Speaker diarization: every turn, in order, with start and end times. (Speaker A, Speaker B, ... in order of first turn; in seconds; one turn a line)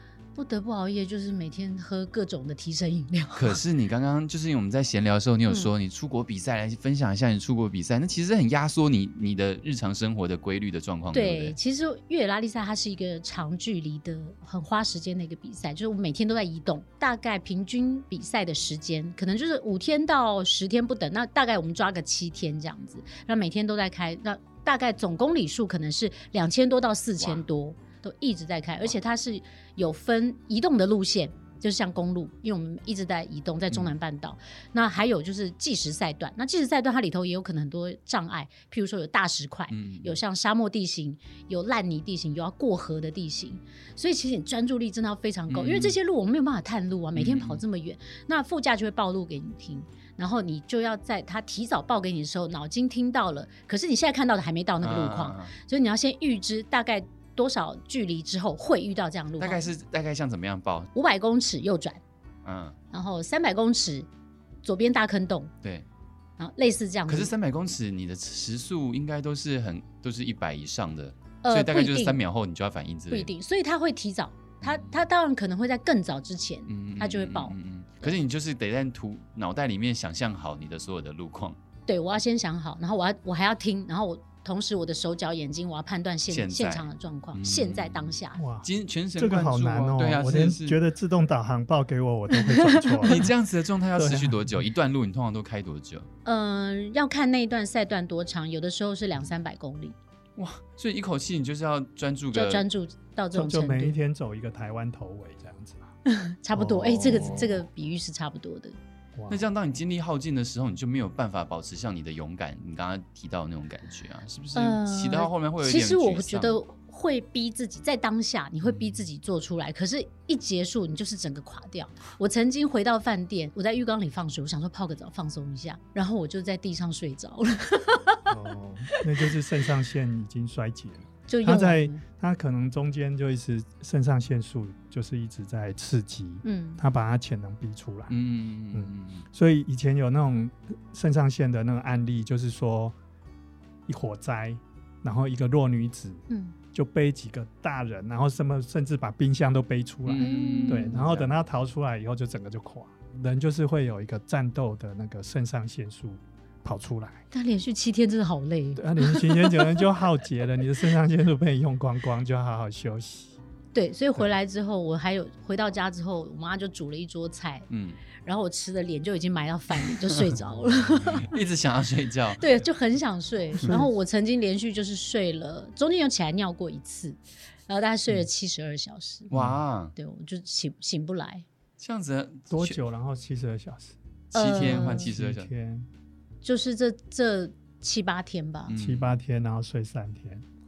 Speaker A: 0.3-3.6
Speaker B: 3.4-11.6
Speaker A: 11.1-59.7
Speaker B: 27.2-27.4
Speaker B: 39.7-40.2
Speaker B: 45.5-46.0
Speaker B: 47.1-47.6
Speaker B: 54.8-55.5
Speaker B: 59.4-60.9
Speaker A: 60.9-62.0
Speaker B: 62.5-62.8
Speaker A: 62.9-64.1
Speaker A: 64.6-65.5
Speaker A: 66.4-67.3
Speaker B: 67.1-73.3
Speaker A: 71.4-72.2
Speaker A: 73.1-78.2
Speaker B: 74.6-75.0
Speaker B: 76.7-81.6
Speaker A: 81.9-88.4
Speaker B: 86.3-90.8
Speaker C: 88.4-93.3
Speaker A: 92.4-93.3
Speaker B: 93.0-96.1
Speaker C: 94.0-94.5
Speaker A: 96.2-100.0
Speaker B: 100.4-102.7
Speaker A: 102.3-104.0
Speaker C: 103.3-105.9
Speaker A: 106.1-108.8
Speaker C: 106.5-107.6
Speaker B: 107.1-107.4
Speaker C: 109.2-109.4
Speaker B: 109.3-116.6
Speaker A: 114.5-128.3
Speaker C: 128.3-138.2
Speaker A: 131.3-132.0
Speaker A: 136.4-136.8
Speaker B: 138.1-139.3
Speaker C: 138.7-143.0
Speaker C: 143.9-157.2
Speaker A: 146.3-146.6
Speaker B: 150.1-151.3
Speaker A: 150.2-151.0
Speaker A: 157.3-159.8
Speaker C: 158.8-163.4
Speaker A: 163.7-167.7
Speaker B: 167.7-168.0
Speaker A: 168.2-171.3
Speaker B: 171.1-172.4
Speaker A: 172.4-179.3
Speaker C: 173.6-173.9
Speaker B: 179.3-179.9
Speaker A: 179.9-181.4
Speaker B: 181.8-182.8
Speaker C: 182.5-184.0
Speaker B: 184.3-185.5
Speaker A: 184.3-185.1
Speaker C: 184.5-185.9
Speaker A: 186.4-188.8
Speaker B: 188.7-189.2
Speaker C: 188.8-190.4